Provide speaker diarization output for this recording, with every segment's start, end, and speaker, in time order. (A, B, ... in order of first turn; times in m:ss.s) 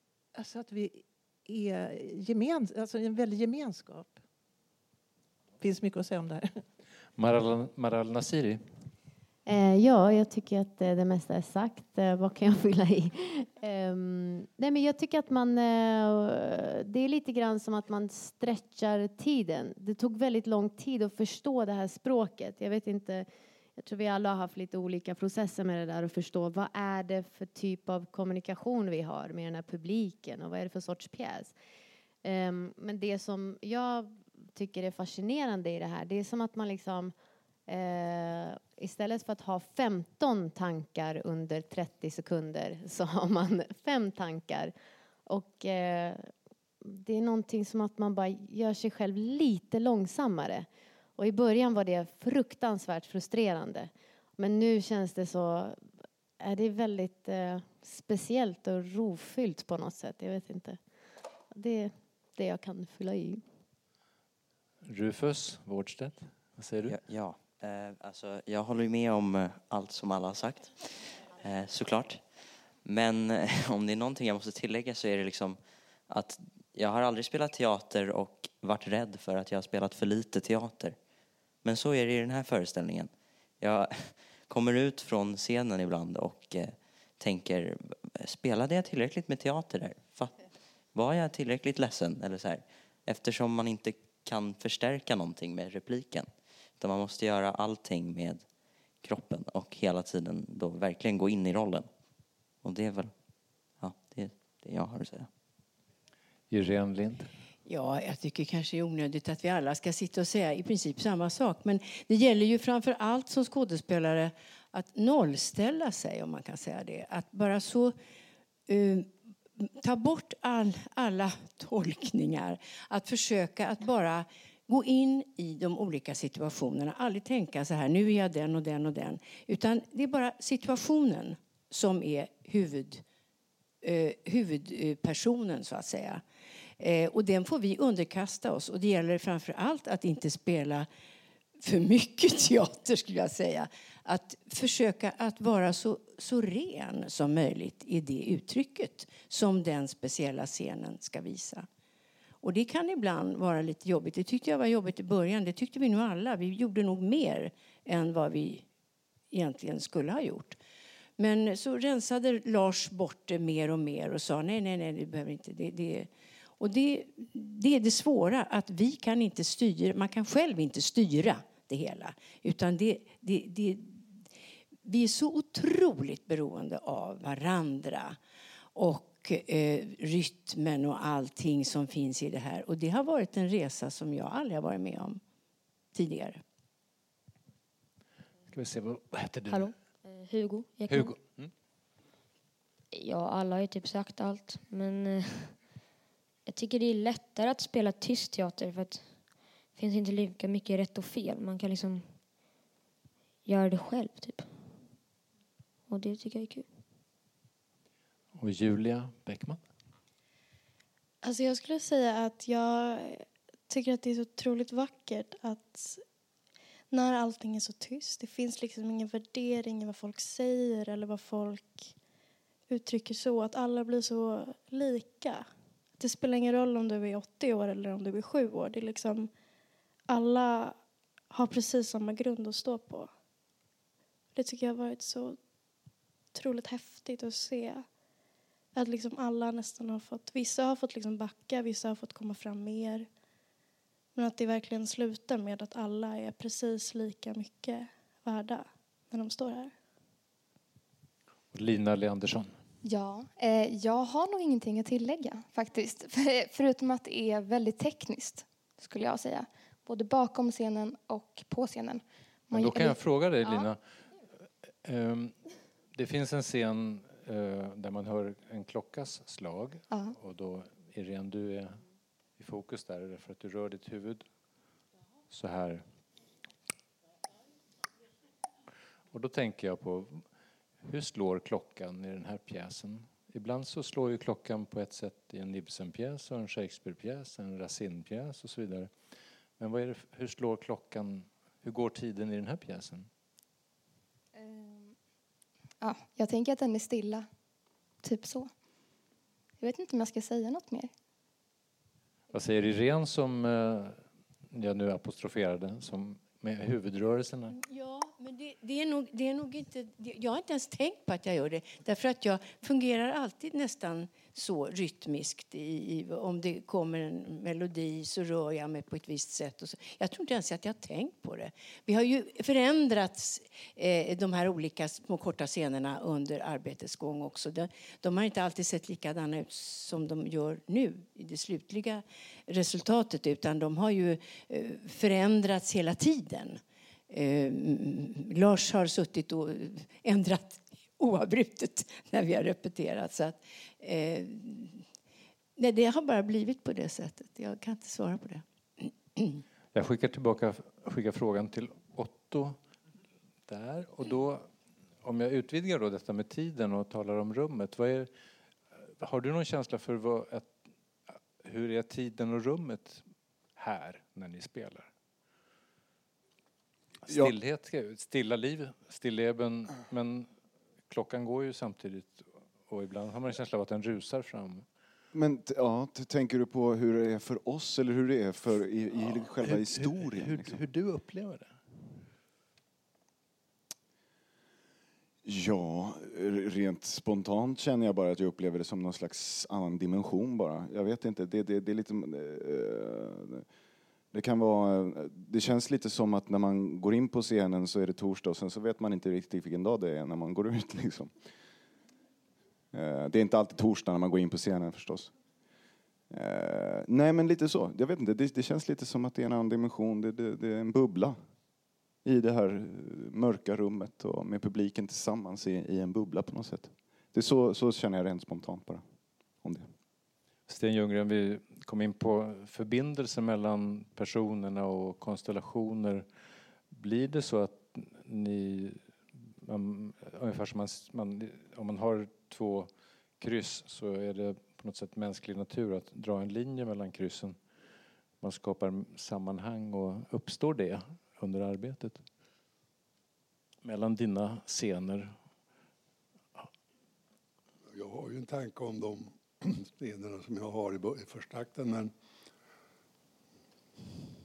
0:00.3-0:04.2 A
0:05.6-0:06.5 A
0:07.2-0:08.8 B
0:09.4-0:31.5 C
0:32.2-0:37.1 C
0:37.7-0:44.7 C
0:45.2-0:46.3 C
0:46.8-0:55.9 C
0:56.4-1:00.8 C
1:01.5-1:03.4 C
1:04.8-1:07.0 B
1:06.8-1:21.0 D
1:21.6-1:41.9 D
1:42.6-1:45.3 D
1:46.5-1:47.3 B
1:47.6-1:57.9 E
1:58.7-2:13.0 E
2:13.8-2:16.2 E
2:16.8-2:20.9 E
2:21.6-2:31.6 E
2:32.4-2:38.6 E
2:39.3-2:40.6 E
2:41.2-2:54.3 E
2:54.8-2:58.2 E
2:58.7-3:05.2 E
3:05.9-3:06.4 E
3:08.5-3:09.8 B
3:09.5-3:11.2 F
3:10.9-3:11.5 B
3:12.9-3:15.8 F
3:16.4-3:22.2 F
3:23.4-3:24.6 F
3:25.9-3:26.7 F
3:28.3-3:29.6 B
3:31.2-3:36.1 G
3:36.9-3:42.0 G
3:42.7-3:49.3 G
3:50.1-3:53.2 G
3:54.3-3:58.0 G
3:58.7-4:03.1 G
4:04.1-4:09.7 G
4:11.5-4:12.6 B
4:22.5-4:23.8 B
4:24.8-4:31.8 B
4:32.4-4:34.3 B
4:35.3-4:35.8 B
4:39.1-4:40.2 B
4:40.8-4:48.9 B
4:49.6-4:53.1 B
4:56.0-4:56.9 H
4:59.7-5:00.8 H
5:02.3-5:07.6 B
5:07.5-5:44.8 E
5:45.6-5:49.4 E
5:49.7-5:52.6 B
5:53.5-5:54.5 B
5:55.0-5:58.1 B
5:59.0-6:00.6 B
6:01.1-6:04.9 B
6:07.0-6:10.3 B
6:07.1-6:07.3 I
6:10.9-6:14.6 B
6:15.1-6:20.6 I
6:19.0-6:21.6 B
6:25.2-6:33.4 I
6:34.1-6:41.1 I
6:42.7-6:45.1 I
6:46.1-6:51.2 I
6:52.0-6:58.8 I
6:59.4-6:59.7 I
7:00.5-7:06.0 B
7:06.7-7:17.4 B
7:18.2-7:22.0 B
7:23.6-7:25.2 B
7:27.7-7:31.9 J